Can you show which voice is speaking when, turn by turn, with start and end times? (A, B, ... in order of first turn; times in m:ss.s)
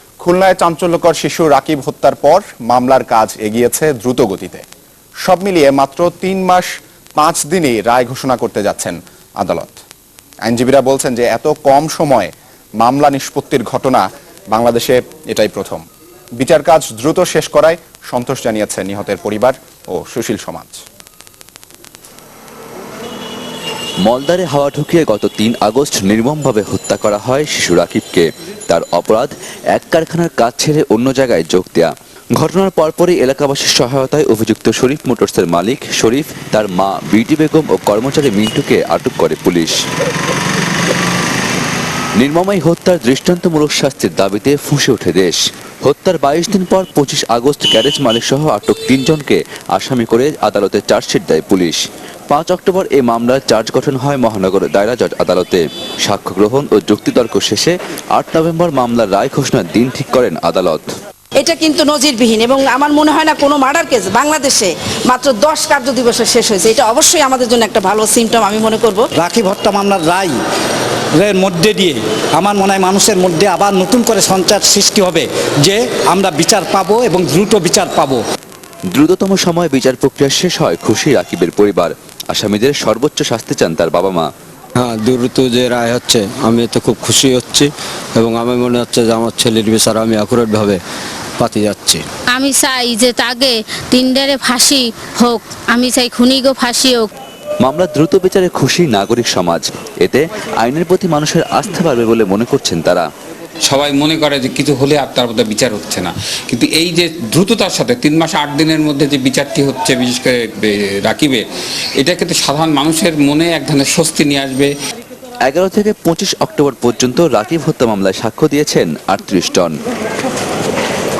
0:00.2-0:04.6 A
0:05.2-0:09.8 A
0:10.4-0:15.8 A
0:16.4-0:20.8 A
0:24.0-0:39.8 B
0:42.2-1:00.9 B
1:01.4-1:09.1 C
1:09.2-1:10.3 D
1:11.2-1:18.2 D
1:18.9-1:24.3 B
1:24.8-1:30.8 E
1:31.4-1:32.0 E
1:32.3-1:37.1 F
1:37.6-1:43.0 B
1:43.6-1:51.4 G
1:52.0-1:54.7 G
1:55.4-1:59.8 B